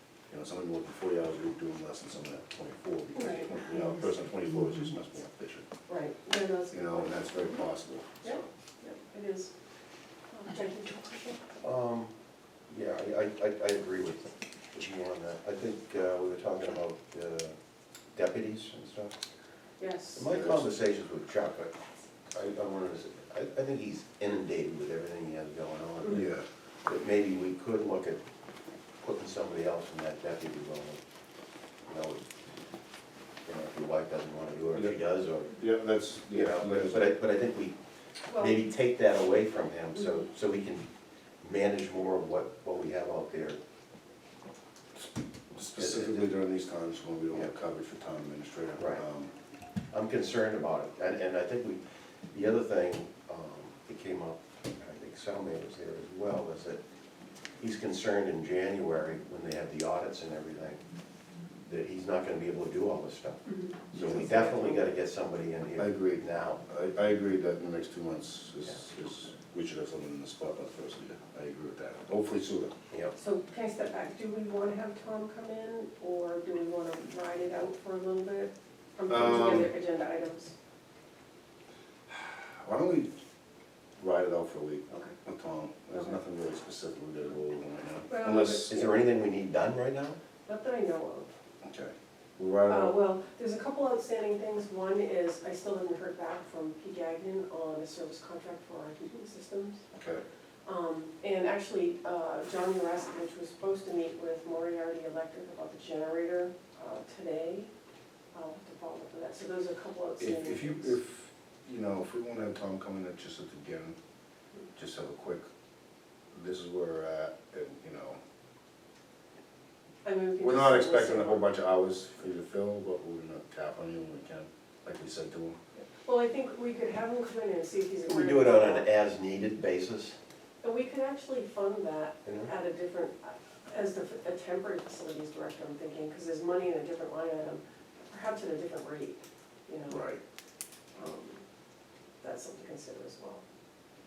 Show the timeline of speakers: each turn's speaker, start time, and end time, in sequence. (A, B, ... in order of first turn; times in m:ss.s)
0:00.3-0:05.7 A
0:03.1-0:04.0 B
0:05.9-0:07.6 B
0:06.7-0:08.4 A
0:08.2-0:09.5 B
0:10.3-0:11.4 B
0:11.6-0:12.1 C
0:12.7-0:17.6 C
0:18.1-0:19.2 C
0:19.8-0:20.2 B
0:20.1-0:21.7 C
0:20.3-0:20.7 A
0:22.3-0:26.3 C
0:26.1-0:26.4 A
0:26.8-0:28.2 C
0:29.0-0:31.0 C
0:31.8-0:32.2 C
0:33.4-0:35.6 C
0:35.6-0:37.1 A
0:36.3-0:37.8 C
0:38.3-0:38.6 B
0:38.3-0:40.9 C
0:41.4-0:43.6 C
0:45.5-0:49.3 A
0:45.8-0:46.1 C
0:48.8-0:49.0 C
0:49.9-0:56.8 C
0:57.6-1:00.8 C
1:01.7-1:06.6 C
1:03.5-1:04.2 B
1:03.9-1:04.7 A
1:05.8-1:12.7 A
1:13.2-1:20.5 B
1:19.1-1:19.7 A
1:22.1-1:23.1 A
1:24.0-1:28.8 A
1:24.9-1:25.1 B
1:28.1-1:29.1 B
1:28.6-1:30.2 C
1:30.4-1:31.3 B
1:31.6-1:33.0 A
1:32.7-1:39.8 B
1:39.9-1:40.2 A
1:40.6-1:47.7 B
1:48.3-1:51.0 B
1:50.2-1:54.0 A
1:54.8-1:55.5 A
1:56.3-1:58.2 A
2:00.0-2:01.5 B
2:00.4-2:05.6 A
2:05.8-2:08.9 B
2:08.0-2:10.2 C
2:10.6-2:20.0 B
2:12.2-2:12.5 C
2:19.8-2:20.2 A
2:21.0-2:21.4 B
2:22.2-2:23.4 B